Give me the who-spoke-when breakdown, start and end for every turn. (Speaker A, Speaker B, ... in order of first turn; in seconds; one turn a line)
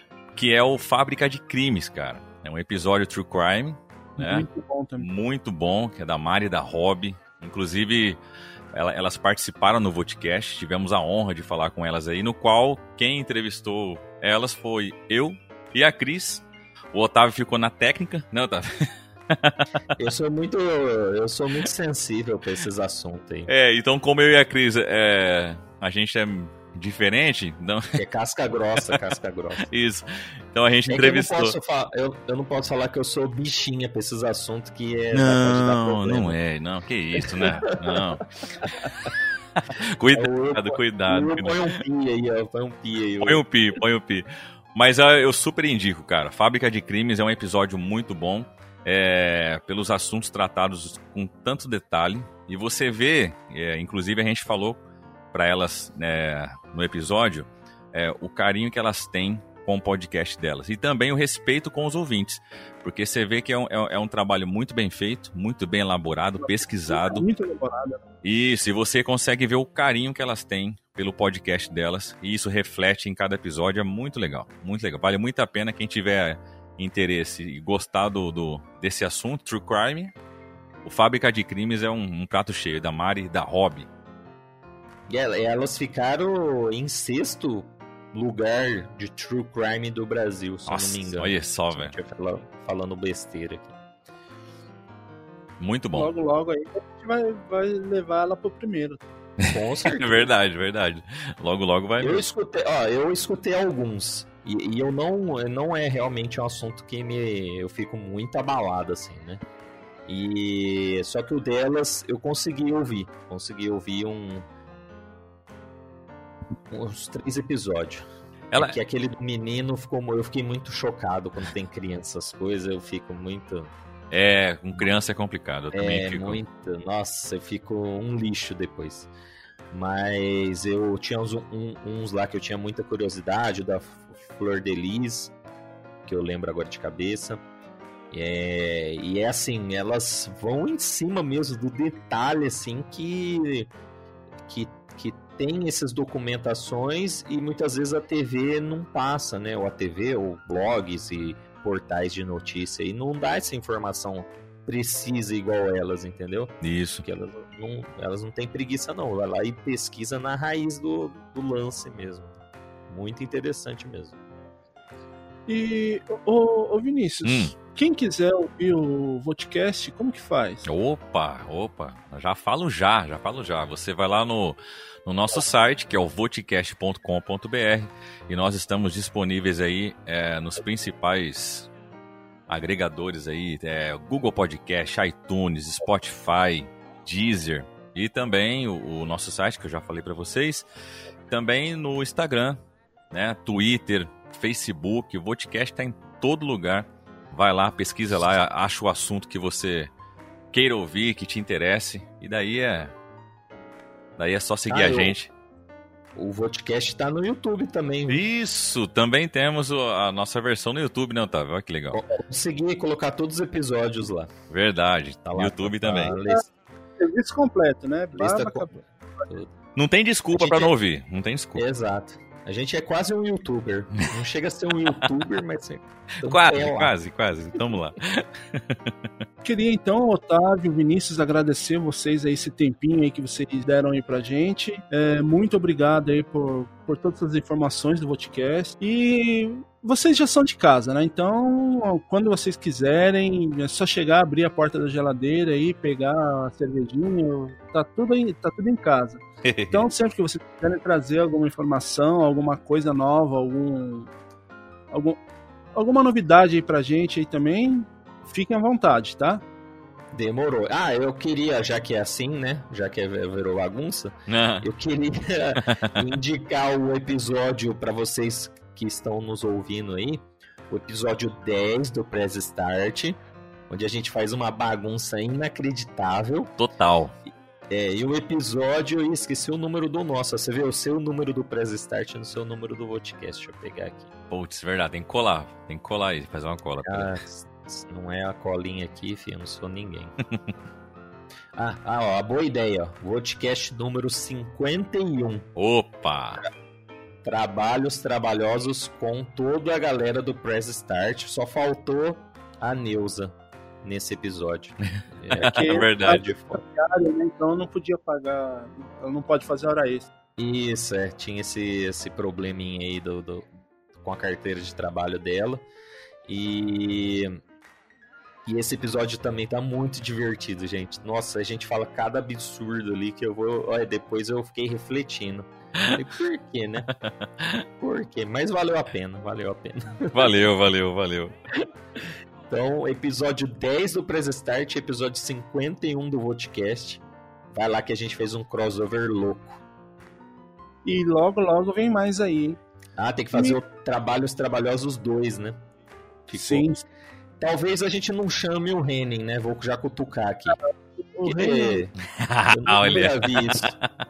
Speaker A: 0.3-4.5
Speaker B: 4.2-5.1
Speaker A: 5.0-8.2
Speaker A: 8.7-19.6
Speaker C: 20.0-23.5
Speaker A: 23.5-28.0
Speaker C: 27.9-29.7
Speaker A: 29.6-31.5
Speaker C: 30.9-36.4
Speaker A: 35.1-38.9
Speaker C: 37.2-38.0
Speaker C: 38.6-38.9
Speaker A: 40.0-41.8
Speaker C: 40.1-43.4
Speaker A: 43.2-54.8
Speaker A: 55.3-67.2
Speaker B: 66.4-68.0
Speaker A: 68.2-80.1
Speaker A: 80.8-83.9
Speaker C: 85.1-93.7
Speaker A: 90.7-91.9
Speaker A: 95.6-96.1
Speaker B: 96.0-99.0
Speaker A: 99.4-102.2
Speaker C: 99.4-100.3
Speaker C: 102.0-109.4
Speaker C: 110.1-114.5
Speaker C: 116.7-123.7
Speaker A: 124.1-126.4
Speaker C: 125.7-129.1
Speaker C: 129.7-135.3
Speaker C: 136.0-137.4
Speaker C: 138.1-143.7
Speaker C: 144.5-162.4
Speaker A: 156.6-157.0
Speaker C: 162.9-164.2
Speaker B: 165.5-170.6
Speaker A: 167.2-167.5
Speaker A: 170.6-181.7
Speaker A: 182.5-190.7
Speaker A: 191.3-192.6
Speaker A: 193.1-199.9
Speaker A: 200.5-202.9
Speaker A: 204.2-205.3
Speaker C: 204.7-205.1
Speaker C: 206.2-208.2
Speaker A: 208.1-212.0
Speaker C: 211.9-214.3
Speaker A: 214.5-216.1
Speaker C: 215.2-216.4
Speaker B: 216.1-216.4
Speaker B: 217.0-218.7
Speaker C: 218.1-219.5
Speaker A: 219.7-221.6
Speaker C: 220.3-220.7
Speaker C: 221.5-226.9
Speaker A: 226.2-228.9
Speaker B: 229.4-254.1
Speaker A: 249.4-249.9
Speaker B: 254.9-255.2
Speaker B: 255.7-259.4
Speaker C: 260.1-273.2
Speaker A: 264.3-264.6
Speaker A: 265.7-265.9
Speaker C: 273.7-276.5
Speaker A: 276.6-277.1
Speaker C: 277.7-284.1
Speaker A: 284.3-287.1
Speaker C: 286.8-290.1
Speaker C: 291.5-295.5
Speaker A: 295.6-296.4
Speaker C: 297.2-306.6
Speaker A: 305.3-306.2
Speaker B: 305.4-310.1
Speaker C: 310.4-315.6
Speaker C: 316.2-317.4
Speaker C: 318.4-326.9
Speaker C: 327.8-330.3
Speaker A: 330.1-331.3
Speaker C: 332.5-337.0
Speaker C: 337.5-339.6
Speaker B: 340.8-342.6
Speaker C: 343.0-345.6
Speaker C: 346.3-346.7
Speaker B: 346.3-346.8
Speaker C: 347.4-350.6
Speaker B: 350.5-351.8
Speaker C: 351.2-351.9
Speaker A: 352.2-353.8
Speaker C: 352.5-353.7